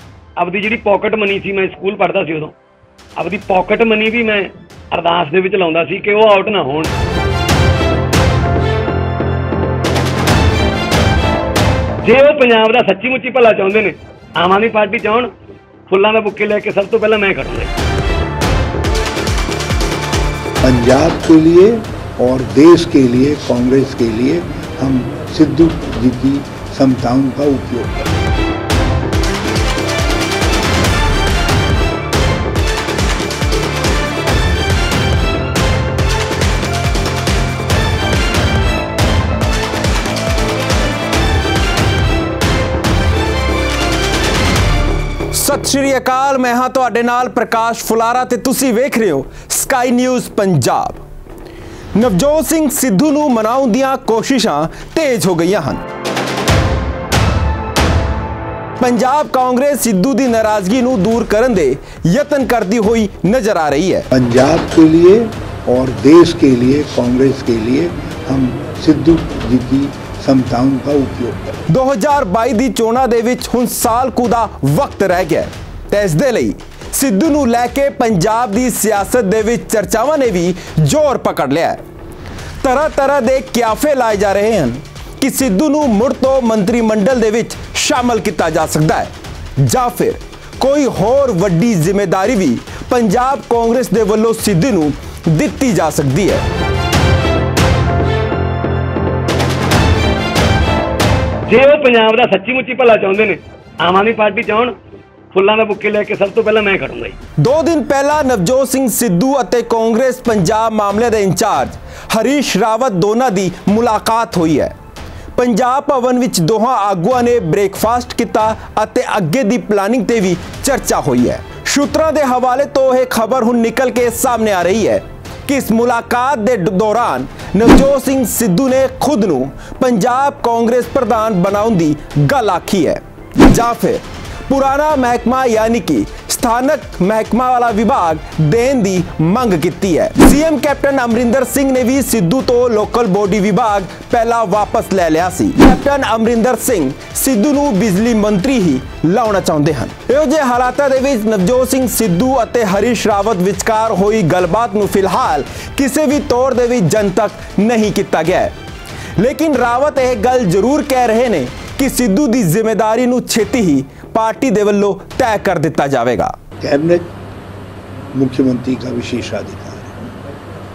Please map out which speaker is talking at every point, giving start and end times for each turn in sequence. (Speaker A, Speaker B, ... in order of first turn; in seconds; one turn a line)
Speaker A: 0.4-2.5
Speaker A: 3.1-6.9
Speaker A: 12.0-15.3
Speaker A: 15.9-17.7
Speaker B: 20.6-28.1
Speaker C: 45.3-51.0
Speaker C: 51.9-55.8
Speaker C: 58.8-64.1
Speaker B: 64.1-71.6
Speaker C: 71.7-81.8
Speaker C: 82.6-96.4
Speaker A: 101.5-104.7
Speaker A: 105.3-107.2
Speaker C: 107.4-114.7
Speaker C: 115.3-158.5
Speaker C: 159.2-166.4
Speaker B: 166.6-167.1
Speaker B: 168.1-169.9